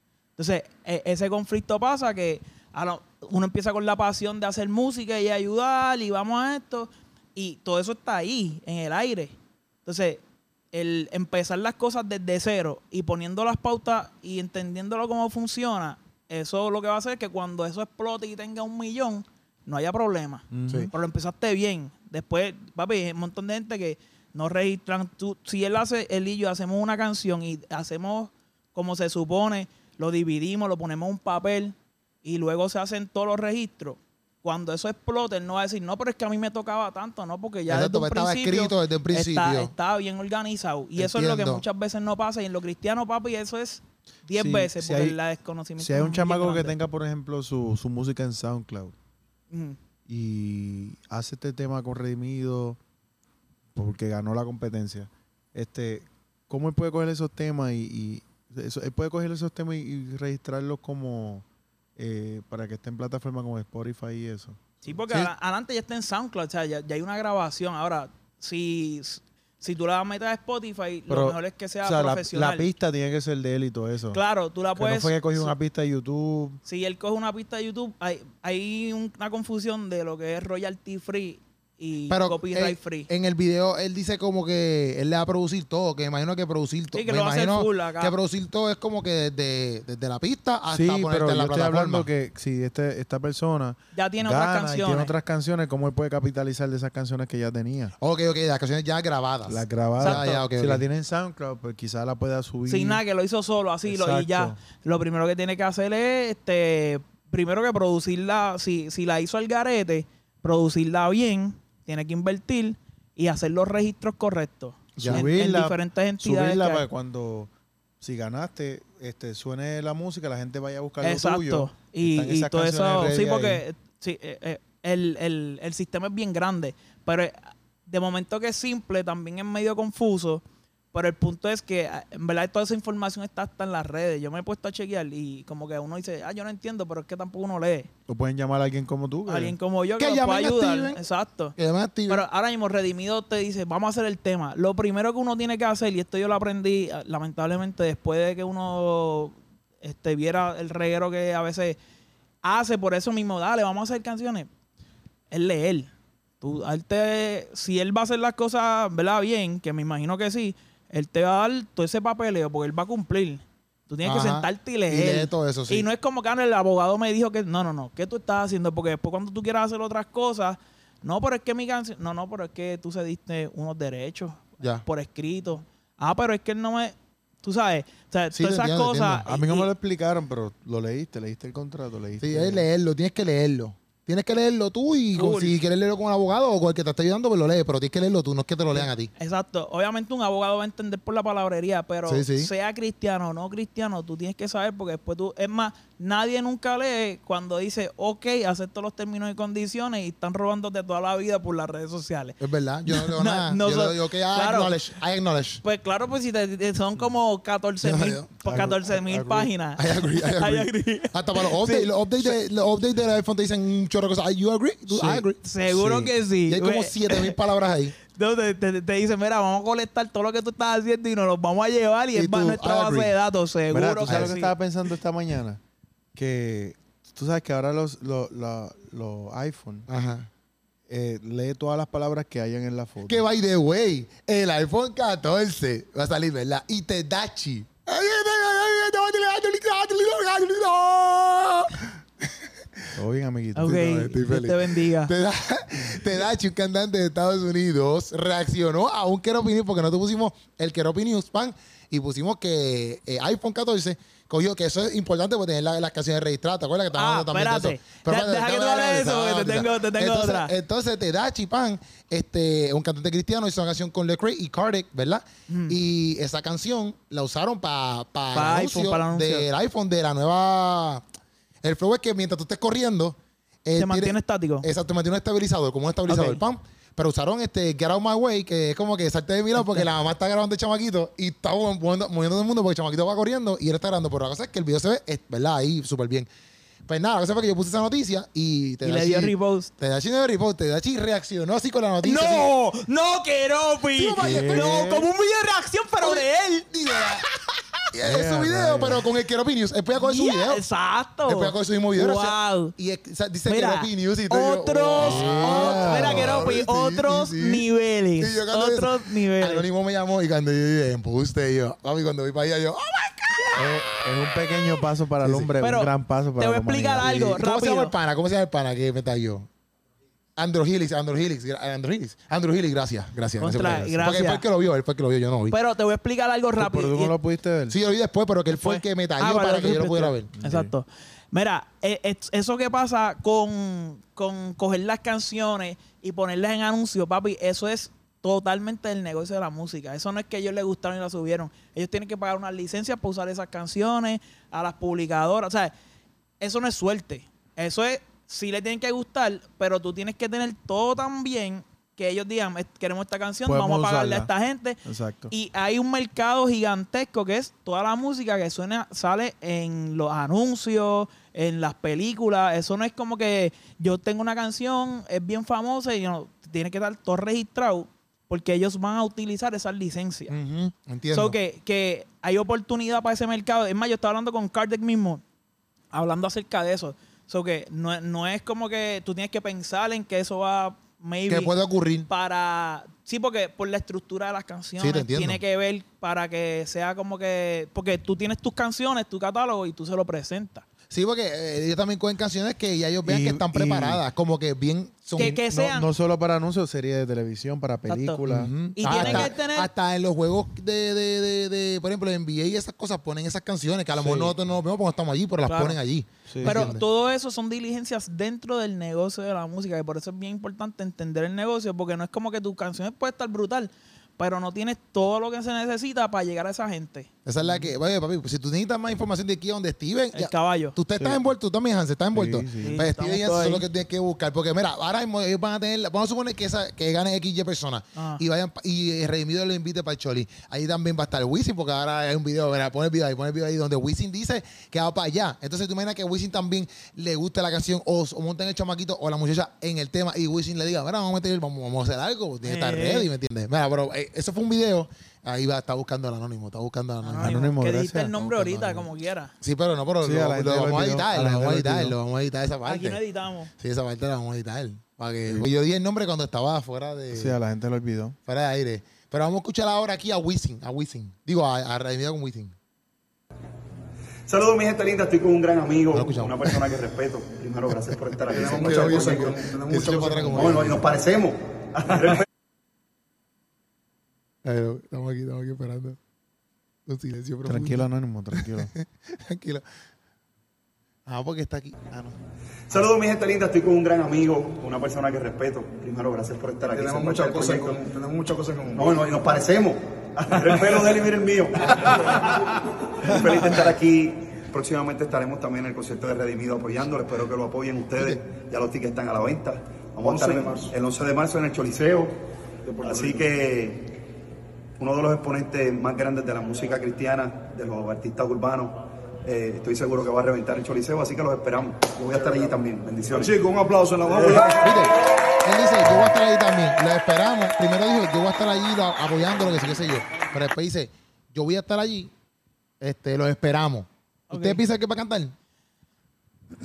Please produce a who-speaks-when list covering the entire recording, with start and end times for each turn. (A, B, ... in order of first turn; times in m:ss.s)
0:00.4-0:46.7 A
0:20.5-0:20.9 B
0:37.7-0:39.7 C
0:41.0-0:41.6 C
0:44.3-0:45.2 B
0:45.8-0:48.9 B
0:49.5-0:49.8 A
0:50.1-0:52.8 B
0:53.7-1:01.4 B
1:02.0-1:05.3 B
1:04.8-1:12.7 A
1:11.1-1:14.2 B
1:14.1-1:15.5 A
1:14.8-1:16.6 B
1:16.6-1:23.1 A
1:22.1-1:32.1 C
1:26.9-1:28.1 A
1:30.7-1:37.9 B
1:33.9-1:35.1 A
1:38.0-1:40.8 C
1:39.4-1:43.0 B
1:40.0-1:40.4 A
1:42.7-1:56.8 A
1:43.8-1:44.6 B
1:55.0-1:55.2 C
1:55.0-1:57.5 B
1:58.0-2:03.6 B
2:01.0-2:17.9 A
2:18.1-2:19.6 B
2:19.3-2:21.6 A
2:20.0-2:21.0 C
2:21.6-2:22.2 C
2:22.1-2:31.8 A
2:32.4-2:34.5 A
2:35.3-2:35.9 A
2:36.4-2:59.7 A
2:44.0-2:45.9 C
2:58.3-2:59.2 C
2:59.2-3:02.6 B
3:02.2-3:09.1 C
3:05.1-3:05.6 A
3:08.7-3:24.7 A
3:12.0-3:12.5 C
3:22.4-3:25.6 C
3:25.6-3:32.3 A
3:27.8-3:28.6 C
3:28.4-3:29.5 B
3:29.8-3:37.9 C
3:34.9-3:37.4 A
3:38.0-3:44.6 A
3:42.1-3:43.2 C
3:43.7-3:45.6 B
3:44.1-3:44.3 C
3:46.1-3:49.9 B
3:49.9-3:50.3 C
3:50.9-3:53.2 B
3:53.1-4:02.0 C
4:02.9-4:03.8 B
4:03.6-4:05.1 A
4:03.6-4:31.0 C
4:16.9-4:20.5 A
4:25.5-4:25.8 A
4:28.3-4:29.5 A
4:31.6-4:46.3 C
4:33.8-4:34.7 A
4:36.1-4:36.4 A
4:39.6-4:39.8 A
4:46.9-4:52.5 C
4:48.8-4:49.7 A
4:52.0-4:57.2 A
4:54.0-4:54.9 C
4:54.2-4:55.1 B
4:56.0-4:57.2 C
4:57.9-5:00.6 C
4:58.0-4:59.0 B
4:59.9-5:02.7 A
5:01.3-5:07.6 C
5:03.5-5:09.7 A
5:05.0-5:06.5 B
5:08.2-5:14.0 C
5:13.6-5:17.4 B
5:15.2-5:15.5 C
5:15.6-5:17.9 A
5:17.0-5:19.5 C
5:20.4-5:25.6 C
5:23.4-5:24.4 A
5:23.6-5:24.1 B
5:25.5-5:27.1 A
5:26.6-5:27.8 B
5:27.7-5:30.3 C
5:28.5-5:45.7 A
5:30.4-5:30.7 B
5:46.4-6:10.3 A
5:53.4-5:54.3 B
5:54.8-5:55.3 B
6:10.3-6:11.4 C
6:11.1-6:15.2 A
6:15.9-6:21.5 A
6:21.3-6:22.1 C
6:22.1-6:30.6 A
6:24.8-6:25.4 C
6:30.9-6:35.6 C
6:33.0-6:34.0 B
6:35.2-6:35.9 A
6:35.2-6:39.3 B
6:37.9-6:38.2 A
6:38.3-6:46.8 C
6:38.8-6:39.7 A
6:44.0-6:44.4 B
6:45.4-6:45.8 A
6:46.3-6:46.7 B
6:46.4-6:57.1 A
6:57.2-7:27.4 C
6:57.4-6:57.7 B
7:00.1-7:00.8 A
7:01.0-7:01.2 B
7:02.1-7:02.8 B
7:02.6-7:03.6 A
7:08.0-7:08.2 A
7:22.4-7:23.1 A
7:27.0-7:29.3 A
7:27.2-7:28.2 B
7:28.2-7:28.8 C
7:29.4-7:33.0 C
7:30.0-7:32.0 B
7:32.6-7:33.5 A
7:33.6-7:37.4 C
7:37.1-7:38.2 B
7:38.2-7:42.5 C
7:44.3-7:52.2 D
7:45.9-7:46.5 C
7:48.3-7:50.8 C
7:54.4-7:56.0 C
7:56.9-7:57.8 C
7:57.4-7:58.7 B
7:58.4-7:59.6 C
8:01.0-8:02.2 C
8:02.7-8:12.4 D
8:13.0-8:22.1 D
8:22.6-8:24.0 D
8:24.8-8:34.7 D
8:34.6-8:42.1 C
8:42.8-8:45.3 C
8:44.3-8:44.6 A